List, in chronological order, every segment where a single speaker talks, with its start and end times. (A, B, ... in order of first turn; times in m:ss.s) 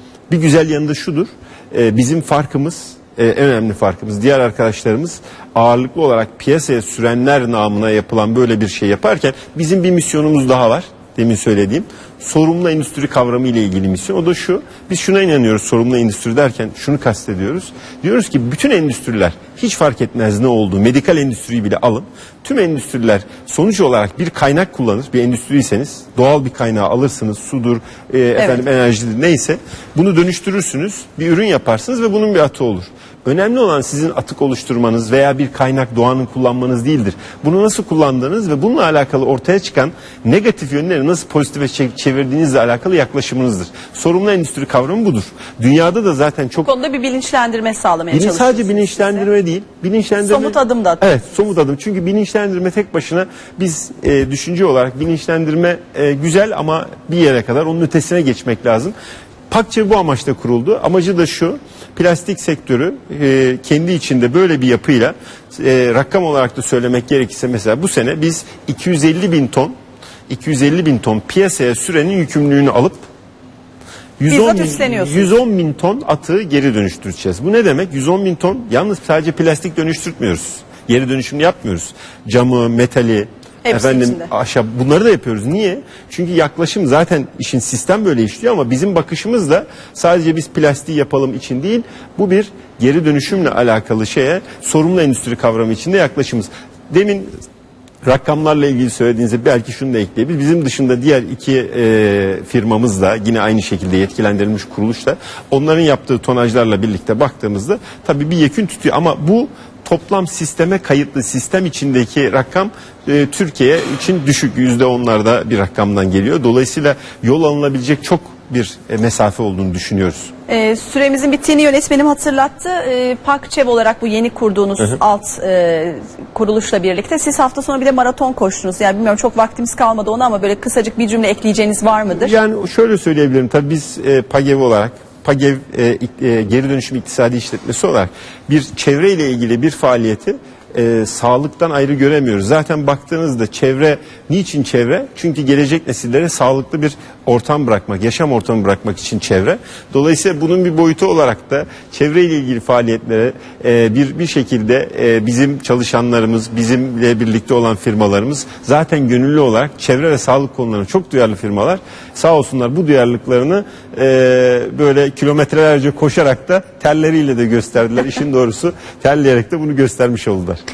0:00.3-0:46.7 A
0:28.4-0:28.6 B
0:46.6-0:49.2 B
0:48.1-0:58.9 A
0:50.2-0:51.0 B
0:59.5-1:09.7 A
1:10.3-1:13.0 A
1:14.2-1:37.3 A
1:14.3-1:15.3 B
1:23.6-1:24.3 B
1:38.0-2:00.3 A
2:00.5-2:12.3 B
2:12.1-2:50.6 A